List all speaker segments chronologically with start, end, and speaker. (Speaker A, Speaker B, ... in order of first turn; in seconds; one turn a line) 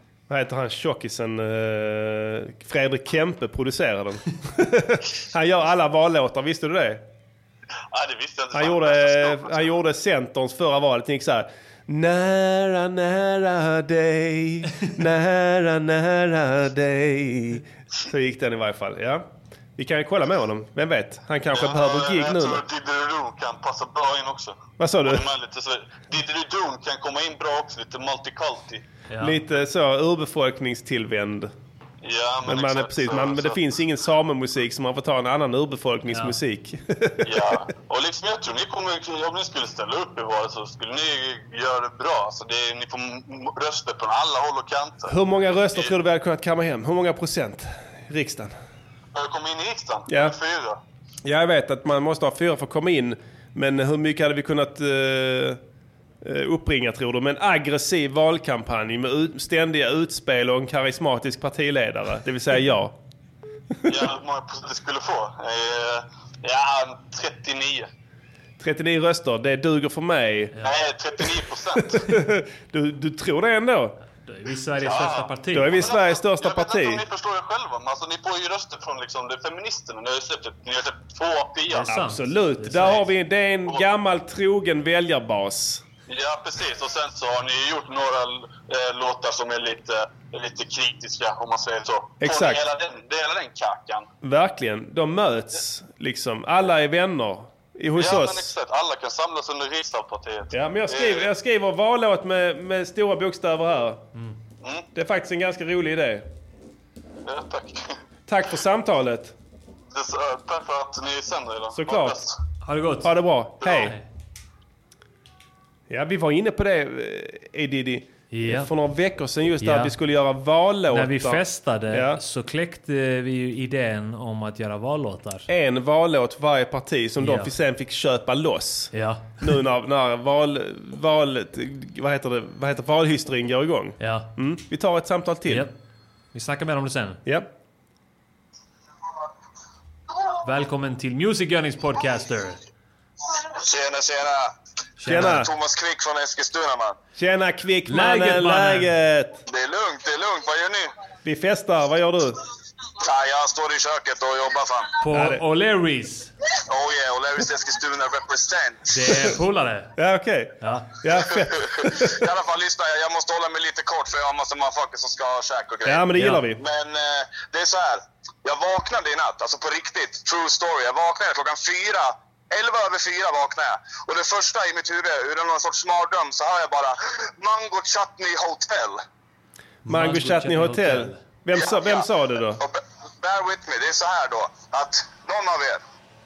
Speaker A: 0.3-7.0
Speaker B: 7.9-9.6
Speaker A: 8.5-19.2
Speaker A: 19.8-22.6
Speaker B: 21.5-28.8
Speaker A: 24.8-25.2
Speaker C: 29.1-29.4
Speaker A: 29.2-31.5
Speaker B: 32.0-33.6
Speaker A: 32.4-37.5
Speaker C: 36.1-36.4
Speaker B: 37.2-45.1
Speaker A: 45.1-48.5
Speaker B: 49.1-50.8
Speaker A: 50.1-50.3
Speaker A: 51.2-55.6
Speaker A: 56.2-62.9
Speaker B: 63.9-67.9
Speaker A: 68.6-70.5
Speaker B: 70.6-71.9
Speaker A: 71.8-74.0
Speaker C: 74.2-75.8
Speaker B: 74.8-81.9
Speaker A: 75.5-77.0
Speaker C: 81.7-83.0
Speaker A: 81.8-85.8
Speaker B: 86.1-94.1
Speaker A: 92.2-92.6
Speaker A: 94.2-98.5
Speaker B: 97.9-101.3
Speaker A: 100.5-104.0
Speaker A: 104.9-106.3
Speaker B: 107.2-107.9
Speaker A: 108.3-109.3
Speaker B: 109.9-112.3
Speaker A: 111.7-112.2
Speaker C: 112.6-113.1
Speaker A: 113.0-113.9
Speaker C: 113.7-114.1
Speaker A: 115.9-122.2
Speaker C: 118.3-118.7
Speaker C: 119.6-119.9
Speaker C: 120.9-125.5
Speaker A: 125.5-135.7
Speaker C: 127.2-127.5
Speaker C: 128.9-129.3
Speaker C: 134.0-134.3
Speaker C: 135.5-135.7
Speaker C: 136.3-137.2
Speaker C: 140.4-142.6
Speaker D: 143.6-144.5
Speaker C: 145.0-145.4
Speaker A: 145.1-145.5
Speaker D: 145.2-146.9
Speaker A: 147.2-149.4
Speaker C: 147.8-148.9
Speaker D: 149.5-150.9
Speaker A: 151.2-152.3
Speaker D: 153.0-154.9
Speaker C: 155.0-156.3
Speaker A: 155.1-155.4
Speaker D: 156.7-158.9
Speaker C: 158.9-159.9
Speaker A: 159.9-162.2
Speaker C: 160.6-160.9
Speaker D: 162.2-166.0
Speaker A: 165.8-166.6
Speaker C: 166.1-166.5
Speaker D: 166.6-179.0
Speaker C: 179.8-181.2
Speaker A: 179.8-182.6
Speaker D: 182.6-185.8